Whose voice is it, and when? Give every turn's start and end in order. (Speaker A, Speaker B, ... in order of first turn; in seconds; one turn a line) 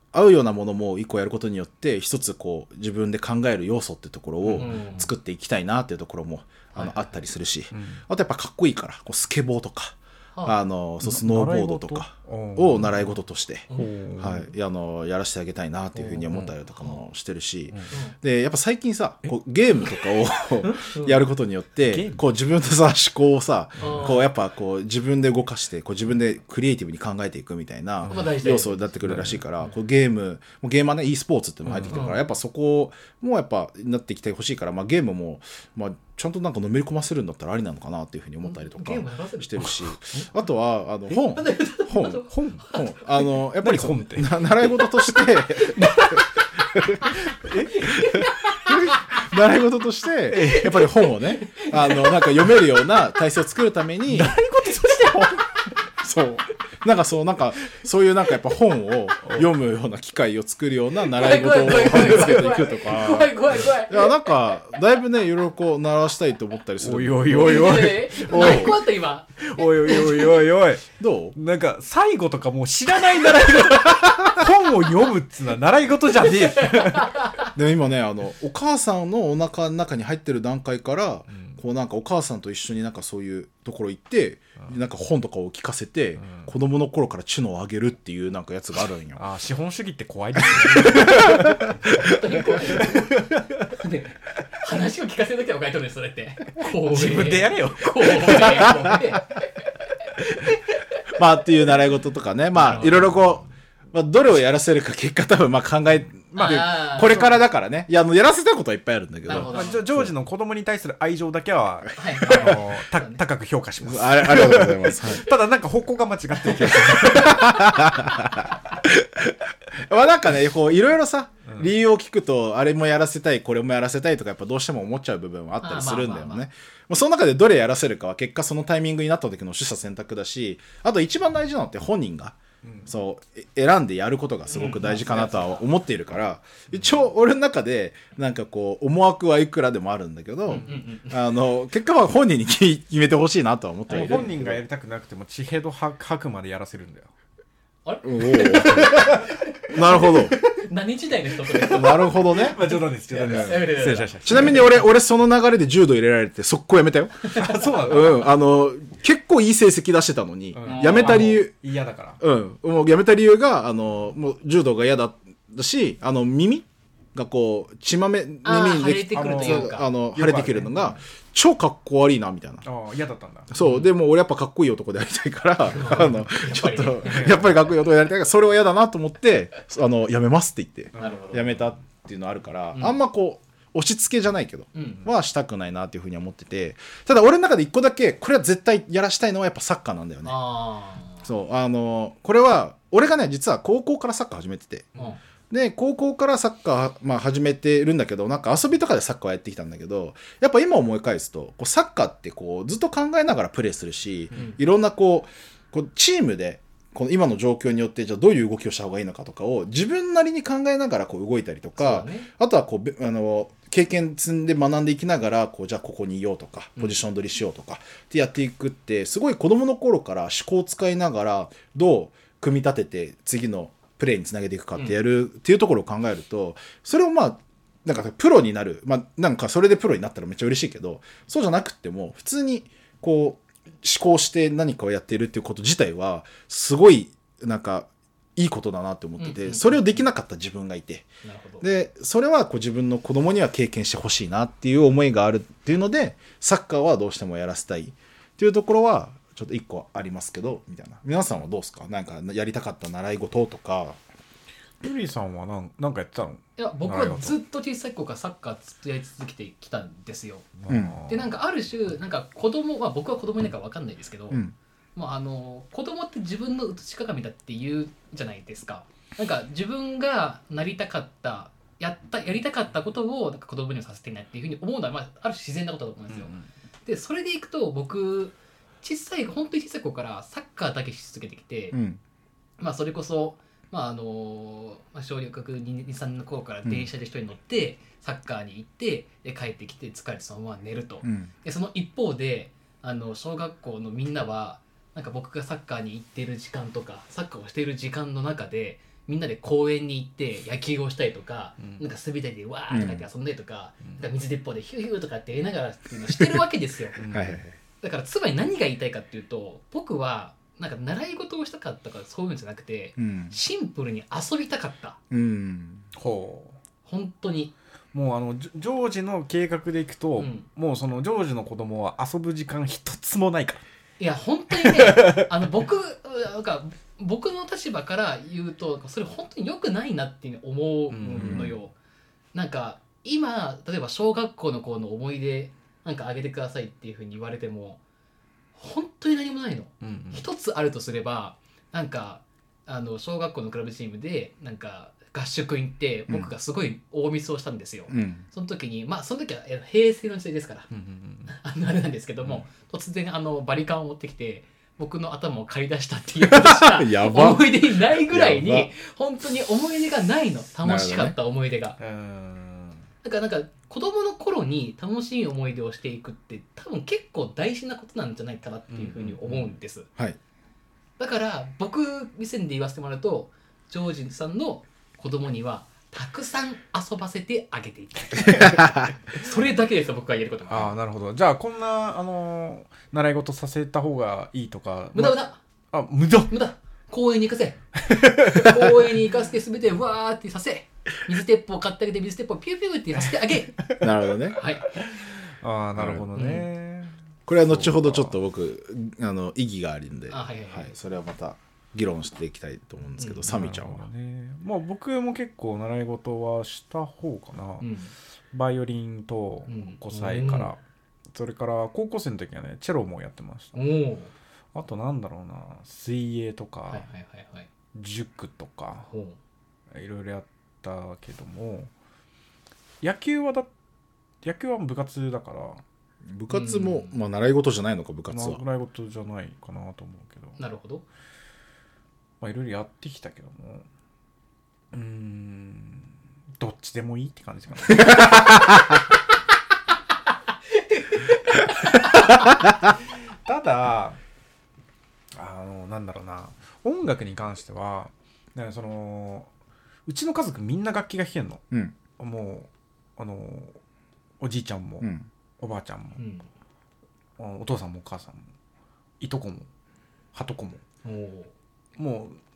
Speaker A: 0.1-47.2
Speaker B: 4.4-4.8
Speaker C: 4.6-5.1
Speaker C: 6.7-7.1
Speaker B: 7.7-8.1
Speaker B: 11.0-13.2
Speaker B: 13.7-14.5
Speaker C: 15.9-17.0
Speaker B: 16.2-16.6
Speaker C: 20.6-21.2
Speaker B: 21.8-22.2
Speaker B: 23.8-24.1
Speaker C: 23.8-24.3
Speaker B: 28.0-28.3
Speaker C: 28.1-29.0
Speaker B: 29.0-29.4
Speaker B: 31.6-32.0
Speaker C: 31.9-32.2
Speaker C: 38.4-39.8
Speaker B: 39.6-40.3
Speaker C: 41.3-43.2
Speaker B: 42.3-42.7
Speaker B: 43.6-44.3
Speaker C: 44.6-46.2
Speaker C: 47.0-47.3
Speaker B: 47.3-48.1
Speaker C: 47.9-49.0
Speaker A: 47.9-54.4
Speaker B: 50.3-50.9
Speaker C: 50.4-52.6
Speaker B: 54.1-55.5
Speaker C: 54.9-55.4
Speaker A: 56.0-68.8
Speaker B: 59.2-59.5
Speaker C: 61.1-64.3
Speaker B: 61.9-62.3
Speaker B: 66.8-68.8
Speaker C: 67.3-70.5
Speaker B: 69.4-77.2
Speaker A: 71.0-71.3
Speaker A: 73.8-74.5
Speaker C: 76.6-77.5
Speaker A: 77.6-89.2
Speaker B: 81.3-81.6
Speaker B: 86.2-86.5
Speaker B: 89.2-91.7
Speaker A: 90.6-92.8
Speaker C: 90.8-93.2
Speaker B: 92.7-93.5
Speaker C: 93.7-101.0
Speaker B: 96.8-98.9
Speaker A: 101.2-110.1
Speaker C: 102.5-103.1
Speaker B: 102.8-103.5
Speaker B: 106.3-106.9
Speaker C: 106.3-107.4
Speaker C: 109.3-109.8
Speaker B: 109.3-117.9
Speaker C: 112.0-113.2
Speaker A: 112.2-112.7
Speaker A: 113.8-115.3
Speaker A: 116.4-144.6
Speaker B: 121.5-121.7
Speaker C: 125.6-126.5
Speaker B: 132.6-132.9
Speaker C: 134.5-135.7
Speaker B: 134.6-135.3
Speaker B: 140.5-140.8
Speaker C: 140.5-141.4
Speaker B: 143.9-147.1
Speaker C: 147.9-154.8
Speaker A: 148.0-150.4
Speaker B: 148.4-150.7
Speaker B: 151.5-154.7
Speaker A: 151.6-153.7
Speaker A: 154.2-161.5
Speaker B: 157.3-158.3
Speaker B: 160.6-162.2
Speaker C: 160.7-161.4
Speaker A: 162.2-172.7
Speaker C: 168.4-169.9
Speaker B: 169.1-171.0
Speaker B: 172.6-173.6
Speaker A: 173.5-190.4
Speaker C: 173.6-173.9
Speaker C: 175.7-177.3
Speaker B: 177.0-177.6
Speaker B: 180.9-181.7
Speaker C: 181.0-181.5
Speaker C: 184.7-185.1
Speaker C: 190.2-191.3
Speaker A: 191.2-194.9
Speaker A: 195.5-241.1
Speaker C: 204.3-204.6
Speaker C: 211.8-212.3
Speaker C: 239.2-240.0
Speaker C: 241.2-241.7
Speaker A: 241.6-254.0
Speaker B: 254.8-257.4
Speaker C: 256.6-260.5
Speaker B: 260.6-261.3
Speaker A: 260.7-261.0
Speaker C: 261.1-264.4
Speaker A: 264.3-264.6
Speaker C: 264.9-276.3
Speaker B: 276.1-276.5
Speaker C: 276.9-281.8
Speaker A: 281.7-282.0
Speaker C: 282.6-307.0
Speaker A: 286.6-286.9
Speaker A: 291.0-291.3
Speaker B: 301.6-301.9
Speaker A: 302.7-303.1
Speaker B: 303.8-304.1
Speaker B: 307.0-307.5
Speaker A: 307.1-307.5
Speaker C: 307.8-315.0
Speaker A: 313.0-313.4
Speaker A: 315.1-315.9
Speaker B: 316.0-316.6
Speaker C: 316.9-317.5
Speaker B: 317.9-323.6
Speaker C: 320.2-320.5
Speaker C: 324.0-331.7
Speaker B: 324.6-325.6
Speaker B: 330.9-331.6
Speaker A: 331.1-331.6
Speaker C: 332.3-337.8
Speaker C: 338.6-350.7
Speaker B: 339.8-340.3
Speaker A: 347.9-348.2
Speaker B: 350.7-351.4
Speaker C: 351.3-361.8
Speaker A: 356.2-358.7
Speaker A: 360.6-361.2
Speaker B: 361.8-362.9
Speaker C: 363.0-369.9
Speaker B: 368.7-369.5
Speaker C: 371.0-380.7
Speaker A: 378.4-378.9
Speaker B: 380.5-386.4
Speaker C: 384.9-385.4
Speaker C: 386.3-393.7
Speaker B: 387.8-388.7
Speaker B: 393.6-393.9
Speaker A: 393.8-394.4
Speaker C: 394.3-394.6
Speaker B: 394.7-398.2
Speaker A: 395.8-396.1
Speaker C: 396.1-396.5
Speaker A: 397.3-403.9
Speaker C: 400.1-400.7
Speaker C: 403.0-403.2
Speaker B: 403.2-407.7
Speaker C: 407.6-407.9
Speaker B: 408.3-410.6
Speaker C: 409.5-410.6
Speaker B: 411.1-413.6
Speaker C: 413.6-414.1
Speaker B: 414.5-416.9
Speaker C: 416.7-417.5
Speaker B: 417.7-418.9
Speaker C: 418.9-419.2
Speaker B: 419.7-421.7
Speaker B: 422.8-423.5
Speaker B: 424.2-425.6
Speaker A: 426.1-428.4
Speaker C: 426.3-426.9
Speaker B: 428.1-430.4
Speaker C: 430.4-430.9
Speaker B: 432.2-433.7
Speaker B: 434.7-438.2
Speaker A: 437.8-438.4
Speaker C: 440.7-442.3
Speaker B: 443.2-444.0
Speaker B: 445.2-449.3
Speaker B: 449.9-451.4
Speaker B: 452.0-453.6
Speaker B: 454.2-456.0
Speaker C: 456.0-456.3
Speaker B: 457.2-458.3
Speaker B: 459.0-459.5
Speaker B: 460.1-460.6
Speaker C: 460.8-461.3
Speaker B: 461.8-462.2